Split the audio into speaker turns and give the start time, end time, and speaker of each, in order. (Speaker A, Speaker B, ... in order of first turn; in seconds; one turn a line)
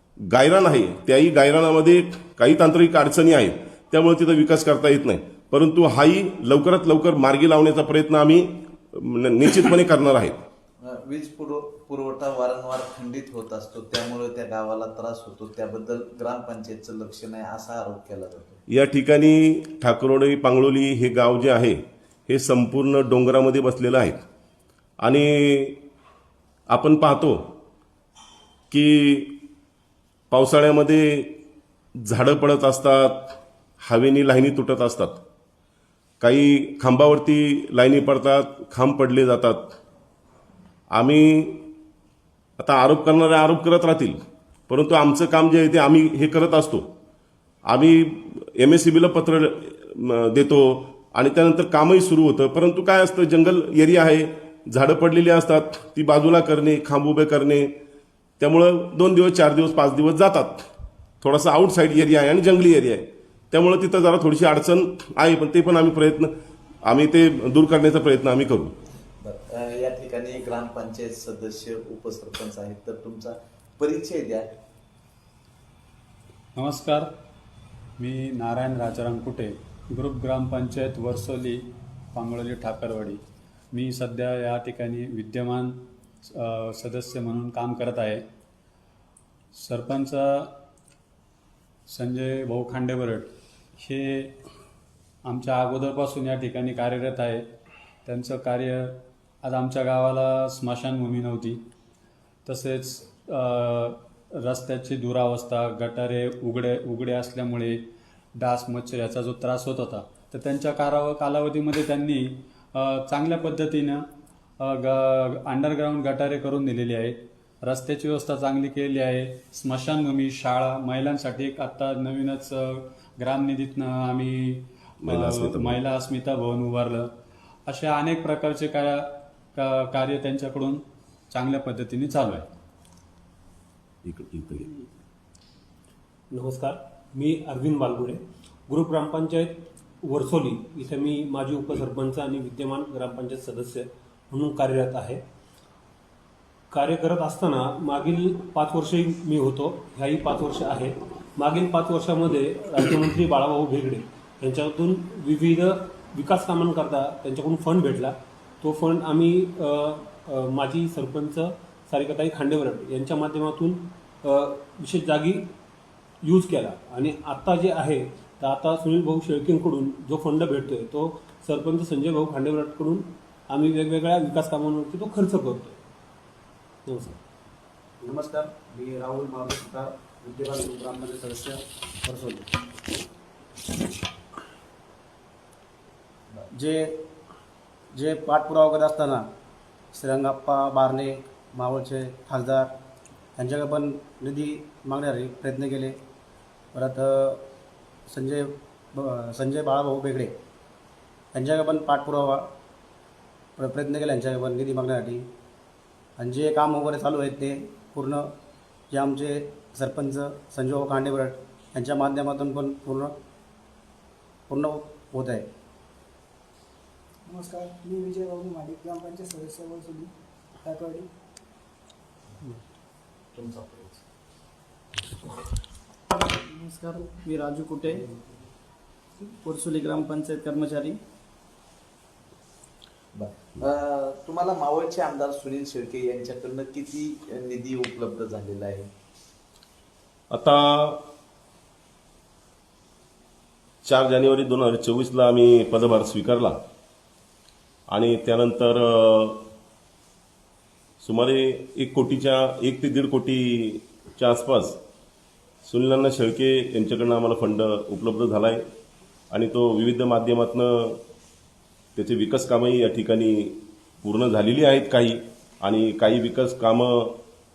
Speaker A: 0.3-10.4
Speaker B: 10.9-18.6
Speaker A: 18.7-24.2
Speaker A: 25.0-25.8
Speaker A: 26.7-27.4
Speaker A: 28.7-29.4
Speaker A: 30.3-31.4
Speaker A: 32.1-35.2
Speaker A: 36.2-39.7
Speaker A: 40.9-41.7
Speaker A: 42.6-44.2
Speaker A: 44.7-46.9
Speaker A: 47.7-57.7
Speaker A: 58.4-60.6
Speaker A: 61.2-66.3
Speaker A: 66.9-68.7
Speaker B: 69.2-74.5
Speaker C: 76.5-77.1
Speaker C: 78.0-81.6
Speaker C: 82.1-83.2
Speaker C: 83.7-88.2
Speaker C: 89.5-90.5
Speaker C: 91.9-94.3
Speaker C: 95.2-97.5
Speaker C: 98.0-101.6
Speaker C: 102.5-107.8
Speaker C: 108.4-114.0
Speaker C: 114.6-127.1
Speaker A: 125.0-125.8
Speaker C: 127.7-132.5
Speaker A: 134.0-134.7
Speaker D: 136.3-145.2
Speaker D: 146.7-165.5
Speaker D: 166.2-175.8
Speaker D: 176.9-177.2
Speaker E: 178.0-182.5
Speaker E: 186.5-187.0
Speaker E: 187.9-189.2
Speaker E: 189.9-192.7
Speaker E: 193.4-196.0
Speaker E: 196.7-197.4
Speaker E: 198.1-200.3
Speaker E: 201.3-202.5
Speaker E: 203.6-205.2
Speaker E: 206.2-208.3
Speaker E: 208.9-213.1
Speaker E: 214.5-215.5
Speaker F: 217.3-220.1
Speaker F: 220.6-221.1
Speaker B: 223.4-223.8
Speaker G: 226.2-228.1
Speaker G: 229.3-231.0
Speaker B: 233.2-238.9
Speaker A: 240.3-241.0
Speaker A: 243.8-246.6
Speaker A: 247.9-249.4
Speaker A: 251.0-254.8
Speaker A: 255.6-258.6
Speaker A: 259.3-261.0
Speaker A: 262.0-267.2